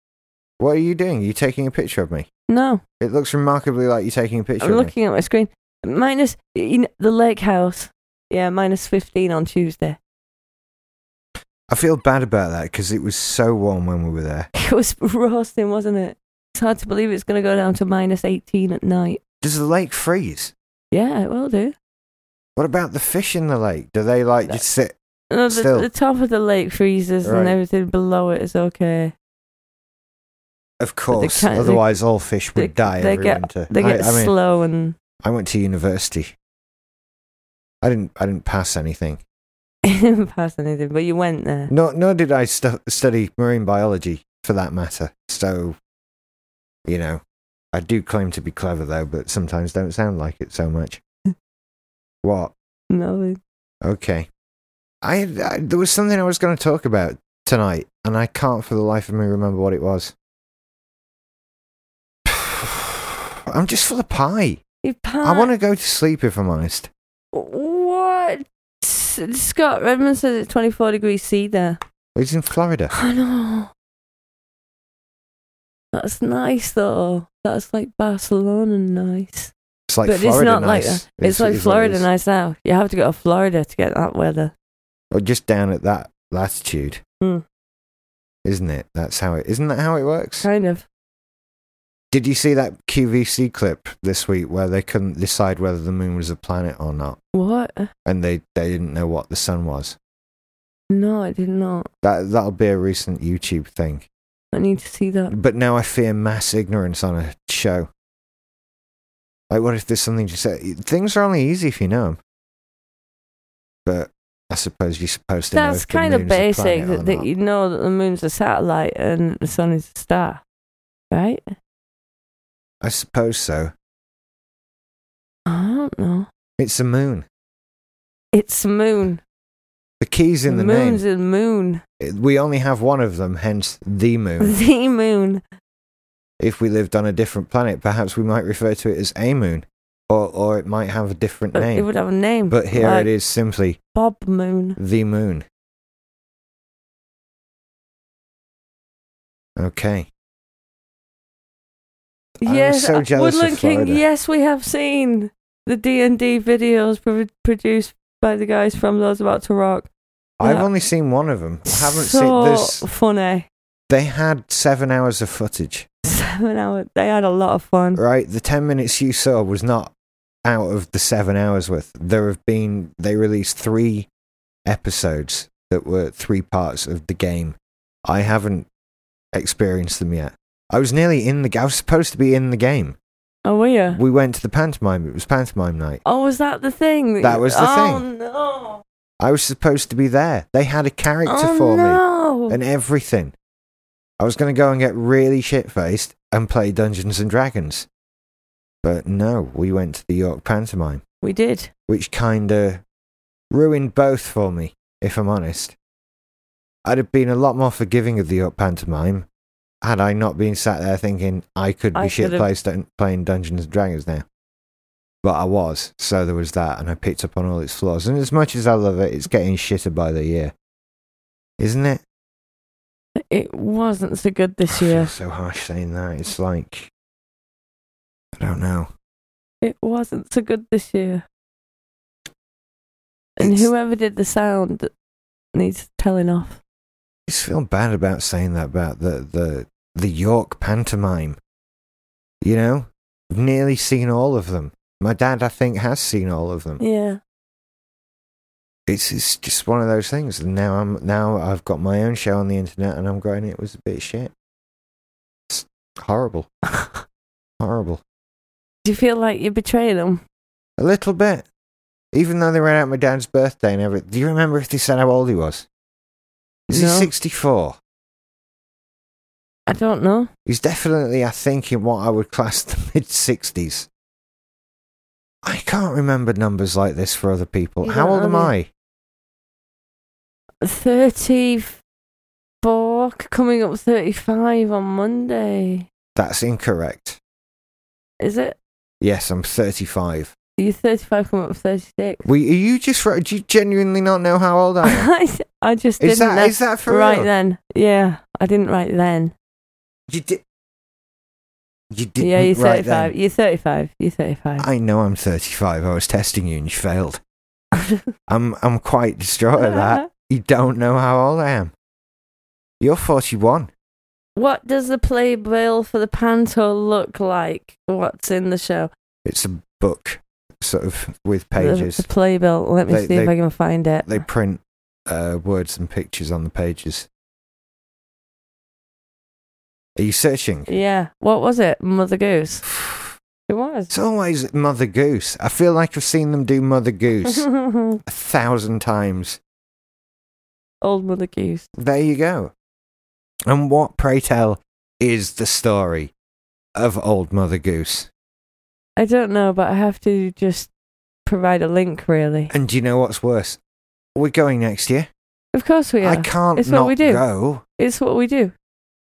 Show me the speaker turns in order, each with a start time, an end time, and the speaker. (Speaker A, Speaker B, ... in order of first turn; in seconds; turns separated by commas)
Speaker A: 0.6-2.3, Speaker B: 2.5-2.8, Speaker A: 3.0-4.9, Speaker B: 4.6-10.0, Speaker A: 11.7-14.5, Speaker B: 14.5-19.2, Speaker A: 19.4-20.5, Speaker B: 20.9-21.7, Speaker A: 22.6-24.9, Speaker B: 25.3-29.1, Speaker A: 25.5-25.9, Speaker A: 27.2-27.6, Speaker A: 30.8-34.3, Speaker B: 31.1-31.9, Speaker B: 32.5-34.9, Speaker A: 35.2-36.3, Speaker A: 37.8-39.2, Speaker B: 39.8-41.7, Speaker A: 41.7-45.8, Speaker A: 46.9-47.2, Speaker A: 47.7-51.0, Speaker A: 52.2-52.5, Speaker B: 52.9-53.4, Speaker A: 53.8-54.3, Speaker A: 55.0-60.1, Speaker A: 62.2-64.6, Speaker B: 64.8-65.5, Speaker A: 65.2-66.9, Speaker B: 67.3-71.8, Speaker A: 72.1-72.9, Speaker B: 72.9-73.7, Speaker B: 75.9-79.5, Speaker A: 79.9-82.1, Speaker B: 80.0-84.5, Speaker A: 85.1-87.0, Speaker A: 88.4-90.5, Speaker B: 90.4-90.8, Speaker A: 92.1-97.2, Speaker B: 97.3-97.9, Speaker A: 98.0-100.0, Speaker B: 100.9-101.9, Speaker A: 102.0-104.1, Speaker B: 104.5-105.3, Speaker A: 105.3-107.9, Speaker A: 109.5-112.2, Speaker A: 113.8-117.3, Speaker B: 115.5-120.4, Speaker B: 121.1-121.4, Speaker A: 122.8-123.7, Speaker B: 125.5-126.3, Speaker A: 126.6-127.2, Speaker B: 128.3-129.2, Speaker A: 130.0-131.0, Speaker B: 130.5-131.8, Speaker A: 132.0-134.6, Speaker B: 134.4-135.4, Speaker A: 136.4-141.9, Speaker B: 141.5-143.1, Speaker A: 142.5-143.8, Speaker B: 143.9-144.8, Speaker A: 144.8-145.4, Speaker A: 149.6-150.1, Speaker B: 152.4-159.9, Speaker A: 152.4-154.0, Speaker A: 160.4-162.8, Speaker B: 160.4-160.7, Speaker B: 161.7-163.5, Speaker A: 163.9-165.9, Speaker B: 166.1-168.0, Speaker A: 167.9-169.9, Speaker A: 170.4-174.1, Speaker A: 174.7-178.7, Speaker A: 179.3-183.0, Speaker B: 183.4-184.0, Speaker A: 183.9-186.0, Speaker B: 186.0-188.8, Speaker A: 187.2-188.0, Speaker A: 189.2-193.3, Speaker B: 191.2-192.6, Speaker A: 194.2-197.9, Speaker A: 198.8-201.0, Speaker B: 201.2-201.7, Speaker A: 201.9-202.8, Speaker A: 203.5-205.7, Speaker A: 206.8-209.2, Speaker A: 209.8-214.2, Speaker B: 211.9-212.5, Speaker A: 215.2-220.5, Speaker A: 221.6-222.0, Speaker B: 223.3-225.1, Speaker A: 224.7-226.9, Speaker A: 228.3-228.9, Speaker B: 229.6-231.2, Speaker B: 233.4-234.9, Speaker A: 233.4-233.7, Speaker B: 235.5-236.6, Speaker A: 237.3-241.4, Speaker A: 242.4-246.8, Speaker B: 246.8-247.2, Speaker A: 248.9-254.3, Speaker A: 255.5-256.5, Speaker B: 256.8-257.0, Speaker A: 257.6-258.0, Speaker B: 258.8-260.2, Speaker A: 260.8-261.4, Speaker A: 262.1-265.7, Speaker A: 266.7-267.8, Speaker B: 266.7-267.1, Speaker B: 269.7-270.3, Speaker A: 270.4-273.9, Speaker A: 275.4-278.7, Speaker B: 277.8-278.5, Speaker B: 280.6-281.8, Speaker B: 282.6-285.9, Speaker A: 286.1-287.2, Speaker B: 288.2-288.6, Speaker A: 289.0-290.3, Speaker B: 290.6-292.2, Speaker A: 292.2-295.1, Speaker B: 294.8-299.3, Speaker A: 296.0-297.3, Speaker A: 300.1-300.4, Speaker A: 301.9-303.1, Speaker B: 302.2-304.7, Speaker A: 304.6-307.2, Speaker A: 308.3-311.7, Speaker B: 309.6-310.1, Speaker A: 312.8-313.7, Speaker B: 314.4-318.9, Speaker A: 319.2-322.0, Speaker B: 321.6-324.2, Speaker A: 322.9-323.3, Speaker A: 324.0-327.1, Speaker A: 329.9-330.7, Speaker B: 330.7-332.6, Speaker A: 332.6-333.1, Speaker B: 333.5-333.9, Speaker A: 333.9-337.5, Speaker B: 337.2-338.0, Speaker A: 338.0-339.4, Speaker B: 340.8-341.6, Speaker A: 341.8-342.5, Speaker A: 343.5-346.1, Speaker A: 346.8-348.1, Speaker B: 349.0-350.7, Speaker B: 351.2-352.5, Speaker A: 352.5-353.6, Speaker A: 354.1-355.1, Speaker B: 355.5-357.2, Speaker A: 356.0-357.6, Speaker B: 357.8-358.5